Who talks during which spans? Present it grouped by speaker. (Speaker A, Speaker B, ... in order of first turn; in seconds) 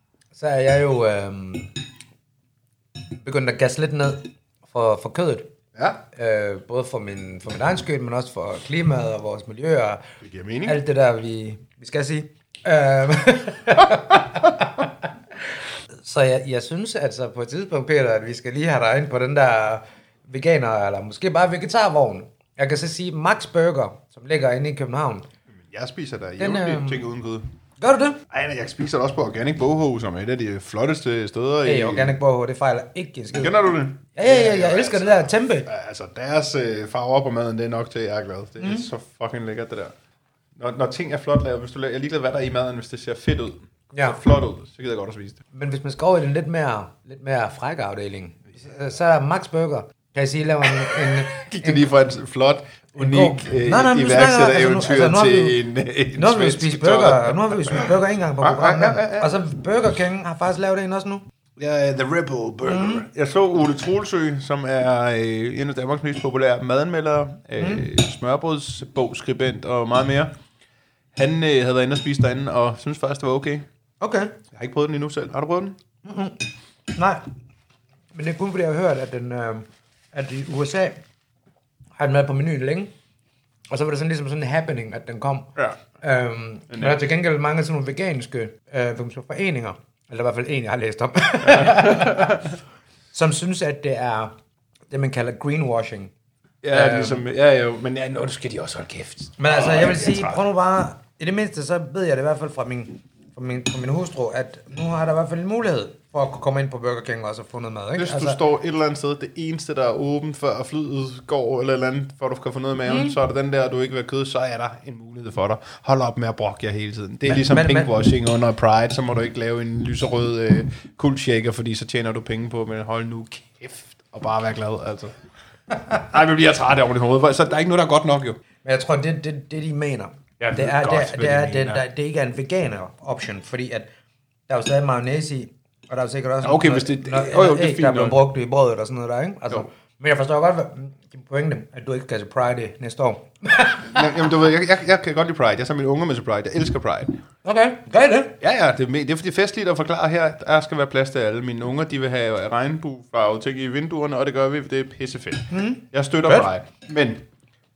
Speaker A: 0.3-1.7, 3.2-5.5, 6.1-10.0, 10.6-14.9, 16.0-25.3, 26.4-27.0, 27.8-28.2, 31.6-35.7, 38.6-38.9, 43.9-44.2, 45.5-51.8, 52.9-55.6, 56.1-61.2, 62.6-63.0, 67.6-67.8, 74.0-74.3, 76.0-76.4, 76.9-77.2, 78.1-81.0, 82.0-82.9, 83.7-92.5, 93.1-94.3, 94.9-96.1, 96.7-97.2, 99.4-108.4, 117.3-117.9, 128.6-133.9, 134.5-144.0, 147.4-148.4, 155.5-156.5
Speaker B: 5.7-6.0, 10.2-10.8, 25.5-27.5, 28.3-32.2, 33.4-39.9, 40.5-45.4, 51.3-59.3, 61.6-70.3, 71.1-73.7, 74.5-75.8, 86.7-87.0, 91.4-92.5, 96.6-100.4, 108.0-125.1, 125.9-128.4, 130.4-131.8, 136.4-138.2, 143.8-147.2, 148.4-157.2